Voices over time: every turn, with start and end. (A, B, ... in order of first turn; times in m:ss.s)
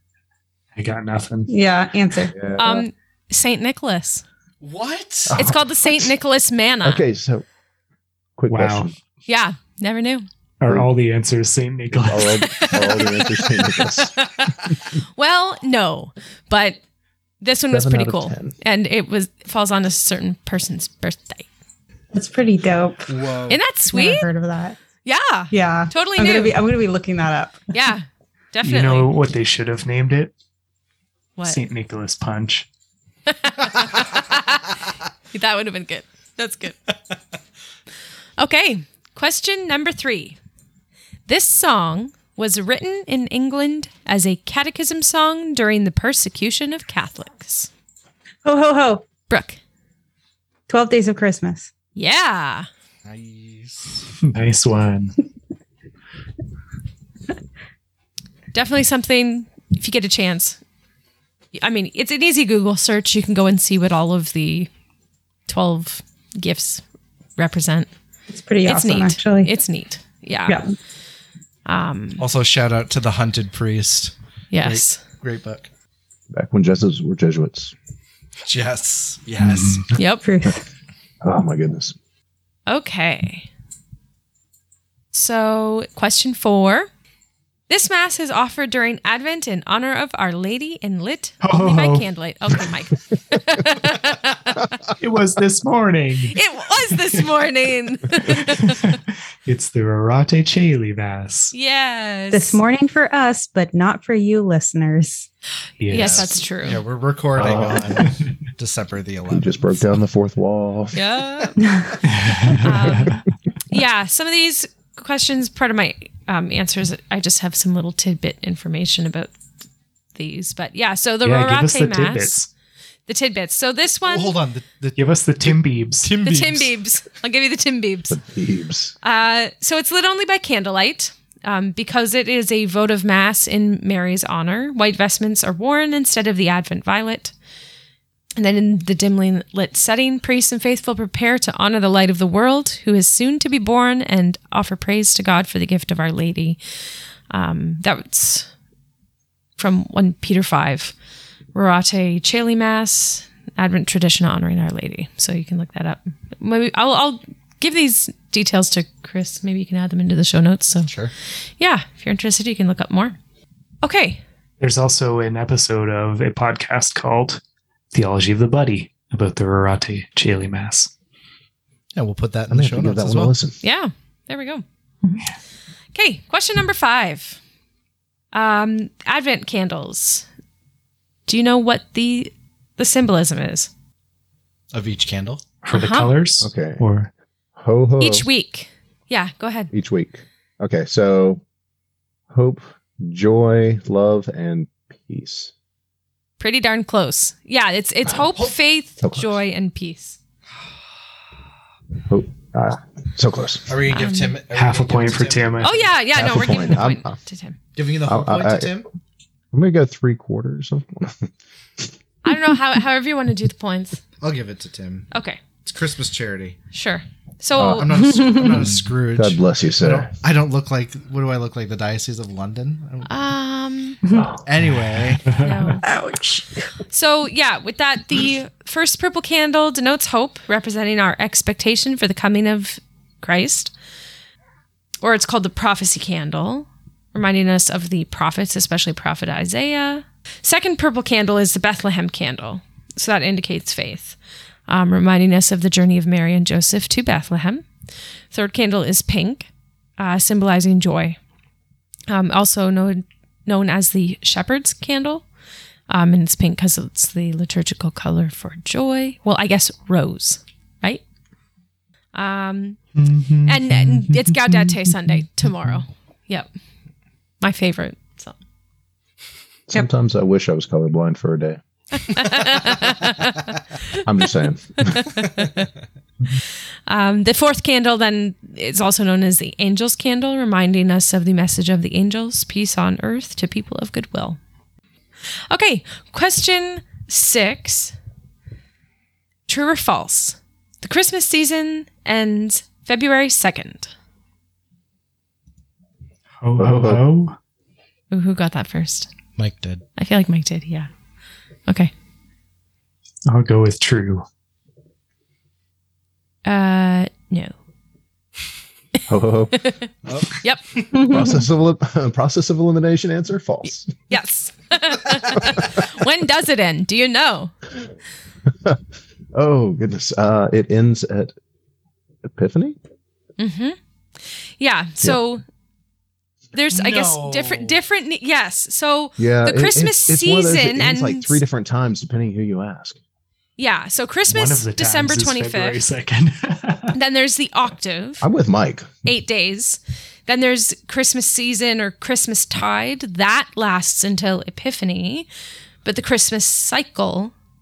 0:00.8-0:01.5 A
0:01.5-0:02.3 B
0:02.3-0:02.9 C
0:02.6-0:04.2 D
0:04.6-0:05.4 E
0:05.3-0:06.1 C
0:05.3-0:07.0 D
0:06.8-0:07.4 C
0:08.4-0:08.9 C
0:08.5-0:08.9 A
0:09.3-0:10.2 D
0:10.6-0:12.5 A
0:12.0-0:14.2 C
0:12.5-0:16.8 D
0:17.4-0:21.4 D
0:17.7-0:18.5 C
0:22.1-0:23.2 B
0:23.1-0:23.6 E
0:23.5-0:24.3 D
0:23.9-0:24.8 B
0:25.0-0:26.6 D
0:25.5-0:27.6 B
0:27.7-0:29.1 D
0:28.6-0:30.3 A
0:31.4-0:32.7 A
0:33.3-0:34.7 D
0:35.3-0:36.8 D
0:38.4-0:40.4 D
0:41.3-0:47.7 D
0:48.4-0:49.0 B
0:49.3-0:49.6 D
0:50.7-0:51.7 B
0:51.9-0:52.7 D
0:53.0-0:54.1 E
0:54.2-0:55.2 A
0:58.5-1:00.6 D
1:01.6-1:04.7 D
1:05.5-1:06.8 D
1:07.4-1:07.9 D
1:08.3-1:09.5 B
1:08.6-1:10.6 D
1:11.6-1:12.2 D
1:12.2-1:15.7 E
1:14.5-1:15.0 D
1:16.3-1:17.7 C
1:18.4-1:19.9 E
1:19.4-1:19.9 A
1:20.0-1:20.2 D
1:20.2-1:20.6 B
1:21.2-1:21.9 C
1:22.7-1:23.5 D
1:25.1-1:26.9 D
1:27.7-1:34.8 D
1:31.4-1:32.1 A
1:35.0-1:37.2 A
1:36.3-1:38.9 D
1:38.2-1:41.5 A
1:41.5-1:42.6 D
1:42.3-1:45.3 B
1:45.8-1:46.4 A
1:45.9-1:46.8 D
1:45.9-1:49.9 E
1:47.4-1:47.9 C
1:49.3-1:51.0 C
1:50.9-1:51.7 D
1:51.6-1:52.0 B
1:52.0-1:53.2 A
1:52.6-1:59.4 D
2:00.1-2:02.4 D
2:01.2-2:02.5 A
2:03.1-2:04.3 D
2:04.0-2:06.7 E
2:05.0-2:06.1 A
2:06.2-2:08.2 D
2:08.1-2:08.9 C
2:09.0-2:17.3 D
2:18.4-2:26.6 D
2:27.3-2:28.5 D
2:29.6-2:30.9 D
2:31.5-2:40.9 D
2:40.8-2:41.1 E
2:41.6-2:43.2 D
2:43.8-2:44.2 D
2:44.6-2:47.4 A
2:47.9-2:50.9 A
2:51.9-2:53.3 E
2:52.5-2:53.6 C
2:53.6-2:54.6 D
2:55.9-2:57.4 D
2:58.3-3:00.3 D
3:01.3-3:03.7 D
3:04.7-3:05.4 E
3:05.6-3:07.1 A
3:05.7-3:06.1 D
3:06.4-3:06.8 C
3:07.6-3:08.3 C
3:08.0-3:09.7 D
3:09.7-3:11.4 C
3:12.3-3:15.5 C
3:16.4-3:20.2 D
3:19.0-3:19.4 C
3:22.1-3:23.7 C
3:23.7-3:25.9 E
3:23.9-3:24.3 D
3:24.5-3:25.8 A
3:25.6-3:27.6 D
3:26.1-3:27.1 C
3:27.7-3:28.9 E
3:28.0-3:28.8 C
3:29.5-3:31.8 C
3:32.2-3:34.0 D
3:34.2-3:36.6 E
3:35.1-3:35.4 D
3:36.7-3:37.9 D
3:37.5-3:40.1 C
3:37.6-3:43.1 E
3:43.0-3:44.0 D
3:44.0-3:44.3 B
3:44.4-3:45.4 E
3:45.2-3:45.7 A
3:45.4-3:45.9 D
3:45.8-3:46.7 B
3:46.9-3:53.7 D
3:55.0-4:04.2 D
4:04.7-4:07.7 D
4:08.3-4:11.2 D
4:12.1-4:15.2 D
4:15.9-4:21.0 D
4:22.1-4:22.8 D
4:22.9-4:25.7 A
4:23.4-4:26.5 D
4:27.4-4:28.3 D
4:29.7-4:31.6 C
4:32.0-4:34.0 D
4:34.0-4:35.1 C
4:34.8-4:35.7 D
4:36.9-4:44.4 D
4:45.5-4:47.9 D
4:49.5-4:53.9 D
4:56.4-4:57.3 A
4:56.6-4:57.0 C
4:58.1-4:59.1 D
4:59.4-4:59.8 E
5:00.0-5:00.9 D
5:01.7-5:01.9 D
5:03.2-5:04.2 A
5:06.4-5:07.5 D
5:09.1-5:09.6 C
5:09.6-5:09.9 D
5:10.0-5:11.1 E
5:10.9-5:11.4 B
5:11.0-5:13.9 C
5:13.7-5:17.5 D
5:18.5-5:18.8 C
5:19.3-5:21.3 C
5:22.2-5:22.8 C
5:23.4-5:23.8 D
5:24.3-5:25.4 D
5:26.5-5:31.4 D
5:26.7-5:27.8 E
5:29.2-5:33.0 C
5:33.6-5:35.8 D
5:34.3-5:36.9 A
5:36.9-5:38.2 D
5:38.2-5:38.9 C
5:39.0-5:45.3 D
5:45.8-5:47.3 D